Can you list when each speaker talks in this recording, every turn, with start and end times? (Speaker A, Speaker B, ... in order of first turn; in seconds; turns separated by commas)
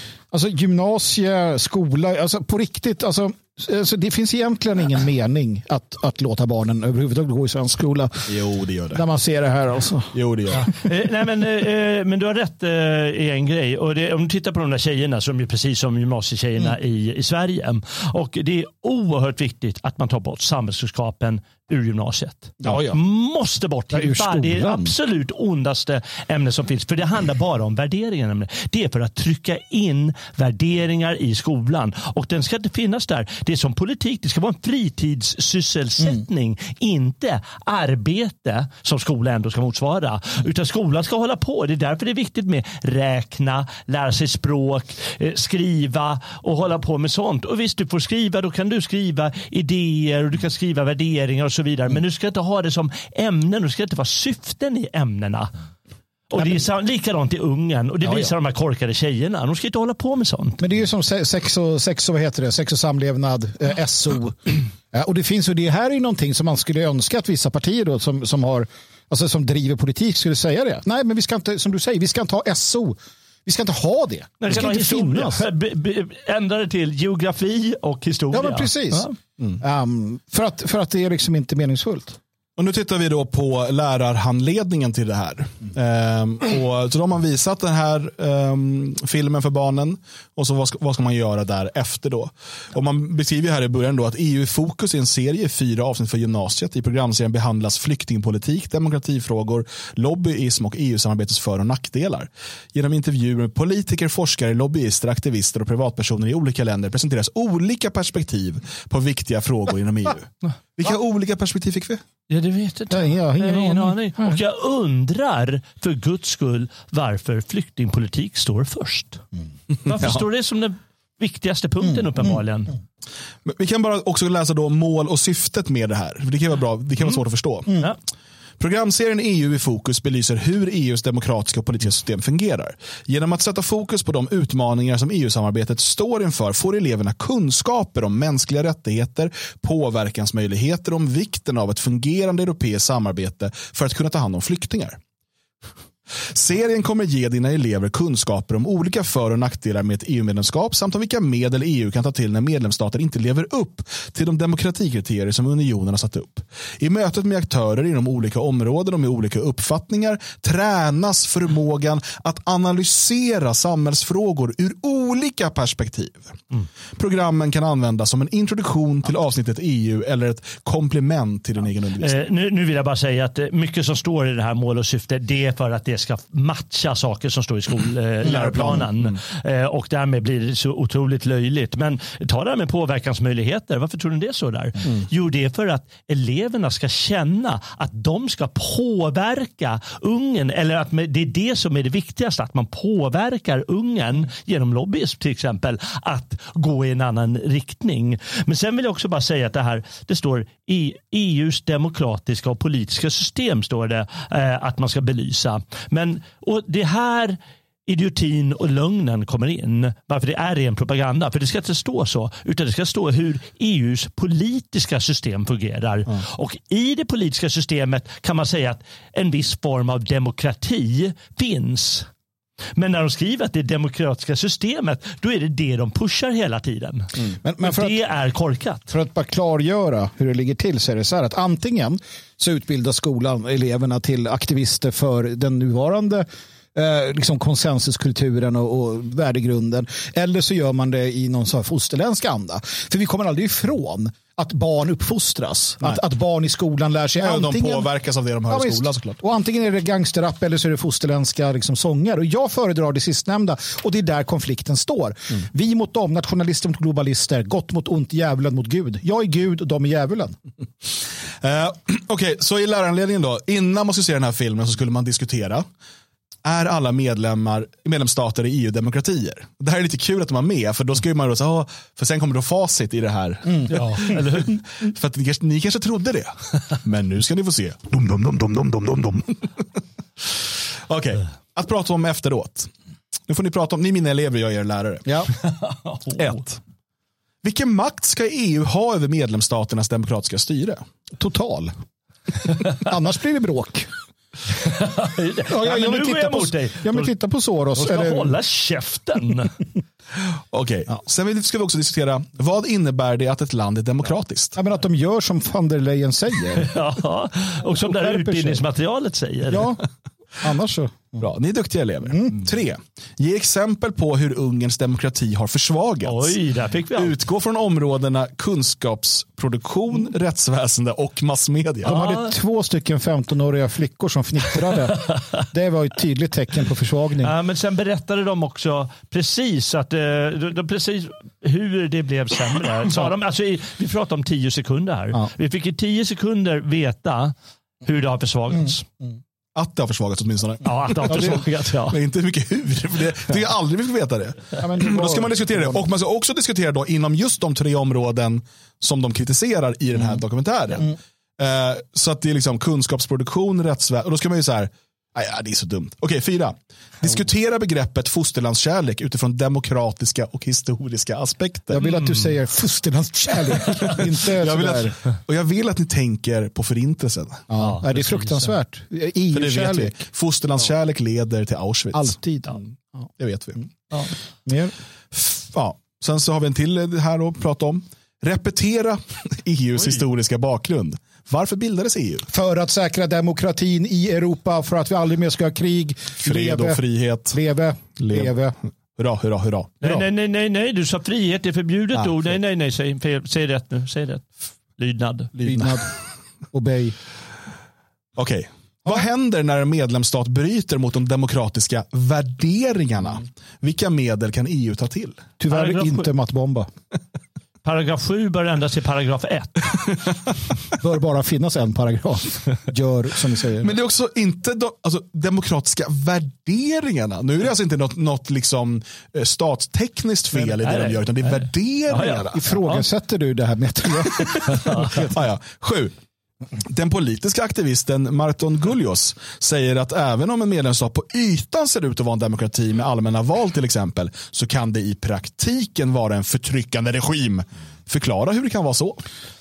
Speaker A: 0.3-8.3, Speaker B: 8.3-9.0, Speaker A: 8.9-10.1, Speaker B: 10.1-10.6, Speaker C: 10.6-55.5, Speaker A: 22.6-23.0, Speaker A: 23.9-24.9, Speaker C: 56.3-60.6, Speaker A: 56.4-56.6, Speaker A: 58.0-58.3, Speaker A: 60.6-75.4, Speaker C: 74.4-79.2, Speaker A: 78.3-79.1, Speaker A: 79.6-82.2, Speaker B: 82.6-112.0, Speaker C: 112.3-119.2, Speaker A: 112.9-114.4, Speaker C: 119.9-122.7, Speaker B: 123.5-127.8, Speaker B: 128.6-145.0, Speaker B: 146.3-166.4, Speaker B: 167.0-172.2, Speaker C: 172.0-222.1, Speaker B: 178.2-179.2, Speaker C: 222.8-228.9, Speaker A: 227.4-228.0, Speaker A: 228.9-247.9, Speaker B: 247.2-249.2, Speaker A: 248.5-260.4, Speaker B: 261.4-265.7, Speaker B: 266.4-274.2, Speaker C: 273.7-274.6, Speaker B: 274.8-279.6, Speaker B: 280.9-282.7, Speaker B: 283.3-285.1, Speaker A: 285.1-285.3, Speaker C: 285.5-286.4, Speaker B: 286.2-286.6, Speaker B: 287.4-290.8, Speaker A: 291.1-291.7, Speaker A: 292.8-293.9, Speaker C: 294.6-297.1, Speaker A: 295.5-298.4, Speaker C: 297.8-299.5, Speaker B: 300.5-304.6, Speaker A: 304.6-306.7, Speaker C: 306.6-309.7, Speaker A: 307.7-308.6, Speaker A: 309.5-309.8, Speaker A: 310.4-311.2, Speaker B: 311.2-316.4, Speaker A: 312.1-312.4, Speaker C: 316.0-317.2, Speaker B: 316.9-321.9, Speaker A: 321.8-327.3, Speaker C: 321.9-322.3, Speaker C: 327.2-337.3, Speaker C: 337.9-338.9, Speaker A: 338.5-339.1, Speaker B: 339.6-350.9, Speaker C: 340.6-342.0, Speaker A: 341.1-341.4, Speaker A: 344.6-345.9, Speaker B: 351.4-361.8, Speaker A: 361.7-364.9, Speaker C: 361.8-362.3, Speaker B: 363.9-367.5, Speaker A: 367.5-369.9, Speaker C: 367.6-368.5, Speaker B: 369.3-372.2, Speaker A: 371.9-373.1, Speaker B: 373.2-373.6, Speaker A: 374.4-374.7, Speaker B: 375.1-382.3, Speaker A: 382.3-386.8, Speaker B: 386.2-387.4, Speaker A: 387.3-388.6, Speaker B: 388.0-388.4, Speaker B: 389.0-390.0, Speaker C: 389.8-395.3, Speaker B: 395.4-395.8, Speaker A: 395.4-395.9, Speaker A: 396.5-397.0, Speaker B: 398.2-405.3, Speaker A: 405.4-406.7, Speaker C: 405.5-406.1, Speaker C: 407.6-409.9, Speaker A: 410.8-413.8, Speaker B: 413.6-422.4, Speaker C: 420.4-422.9, Speaker A: 422.0-425.2, Speaker C: 424.5-424.9, Speaker B: 424.9-425.9, Speaker B: 426.6-439.0